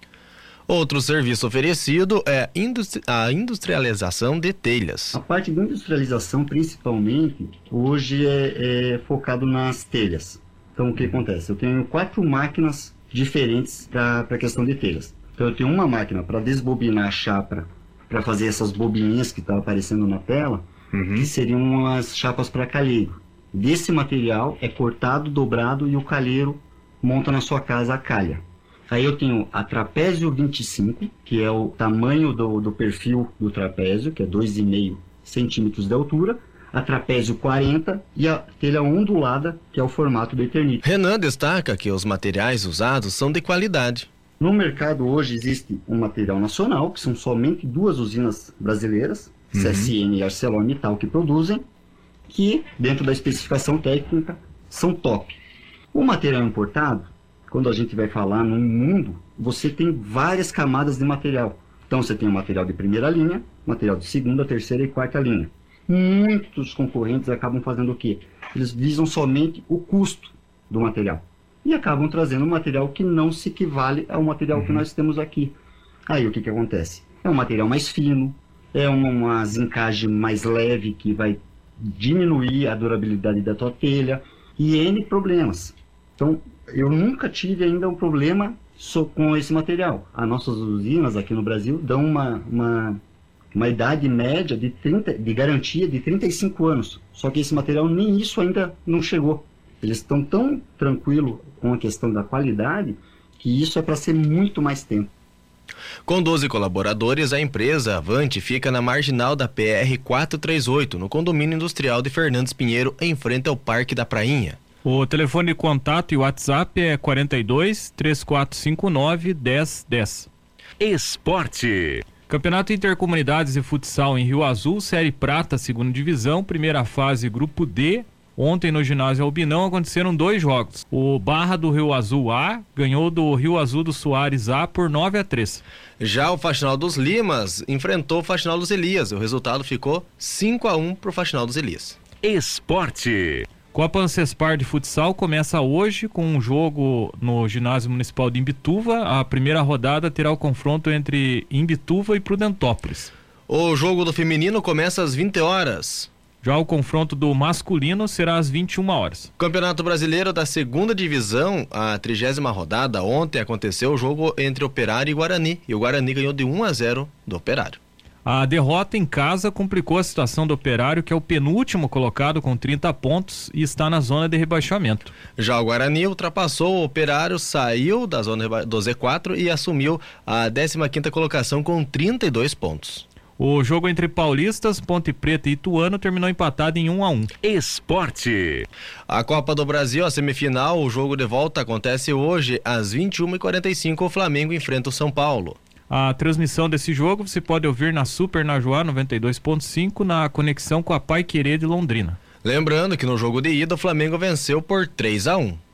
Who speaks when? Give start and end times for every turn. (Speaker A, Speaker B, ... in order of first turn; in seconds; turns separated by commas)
Speaker A: 0.7-5.2, Speaker B: 5.1-40.8, Speaker A: 40.8-44.1, Speaker B: 44.4-51.6, Speaker B: 52.3-55.4, Speaker B: 55.9-75.6, Speaker B: 76.1-93.0, Speaker B: 93.5-105.1, Speaker A: 106.0-114.6, Speaker C: 114.8-120.3, Speaker D: 120.8-122.0, Speaker C: 122.3-135.6, Speaker A: 136.0-142.0, Speaker D: 142.2-143.5, Speaker C: 143.7-153.1, Speaker A: 153.5-156.1, Speaker C: 156.4-159.3, Speaker A: 159.4-167.8, Speaker C: 168.2-175.1, Speaker A: 175.4-183.0, Speaker C: 183.4-187.3, Speaker D: 187.4-188.7, Speaker A: 189.1-195.6, Speaker C: 195.9-202.2, Speaker A: 202.4-205.6